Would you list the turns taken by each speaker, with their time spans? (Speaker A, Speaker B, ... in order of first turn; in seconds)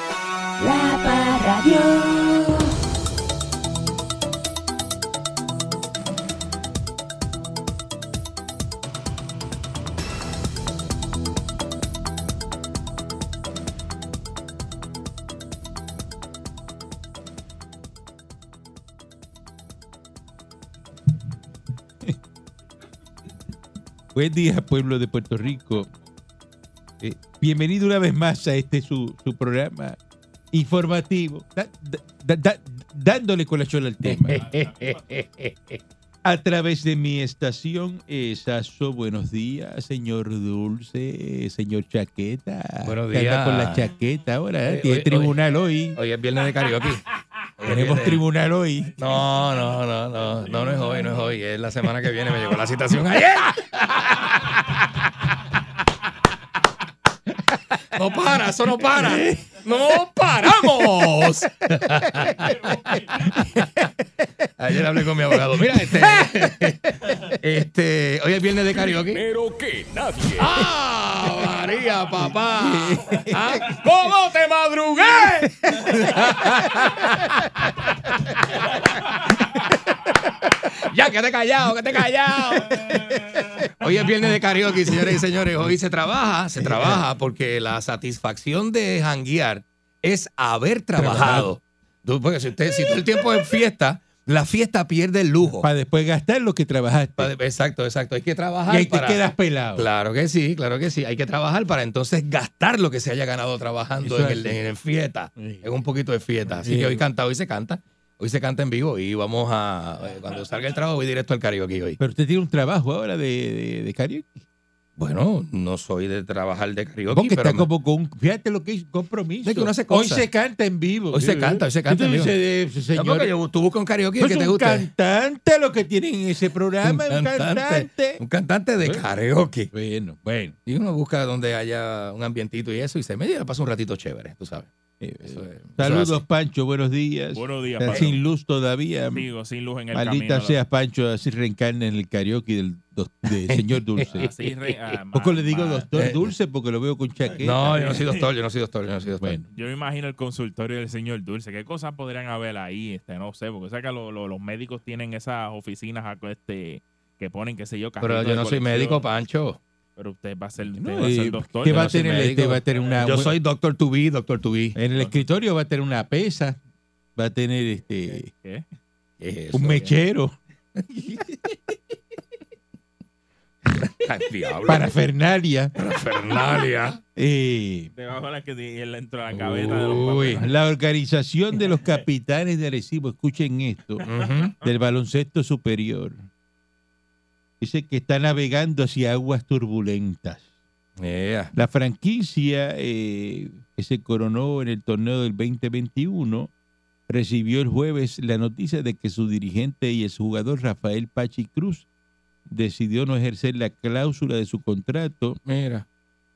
Speaker A: 0.6-2.7
Speaker B: 24.1-25.9, 27.0-30.0, 30.5-34.4, 36.2-46.0, 47.6-49.0, 59.0-59.5, 63.3-63.9, 65.4-65.9, 72.2-73.4, 86.6-87.0, 91.0-91.5, 95.5-97.3, 98.7-99.9, 104.0-104.6, 105.3-105.7, 106.6-107.0, 112.0-114.4, 117.1-123.3, 124.2-128.2, 129.7-130.5, 135.0-139.3, 139.9-144.3, 145.1-148.0, 149.2-149.4, 160.7-163.3, 164.7-166.6, 167.2-168.3, 169.5-170.3, 174.7-175.7, 177.2-177.9, 180.4-184.0, 184.6-186.2, 187.6-190.4, 191.5-196.5, 197.1-201.8, 202.5-205.4
Speaker C: 34.0-35.8, 42.8-43.9, 44.7-45.4, 45.9-47.0, 47.6-48.2, 49.0-55.1, 57.9-63.0, 63.5-63.9, 64.6-69.2, 70.4-78.6, 80.7-95.7, 97.2-99.2, 99.8-112.0, 115.0-117.7, 119.4-120.3, 121.1-122.3, 122.9-124.9, 126.8-129.7, 130.7-134.7, 135.2-136.2, 143.5-144.7, 145.9-146.3, 147.4-149.4, 158.0-159.6, 161.6-164.8, 169.2-170.0, 173.8-174.9, 175.7-177.0, 179.3-180.5, 184.0-184.5, 191.0-191.5, 205.4-205.8
Speaker D: 69.1-70.7, 74.0-75.2
Speaker E: 137.3-138.2, 139.1-140.6, 144.2-145.9, 147.3-148.2, 149.5-159.0, 159.9-162.0, 164.9-165.2, 168.2-168.6, 177.9-180.5, 184.0-184.5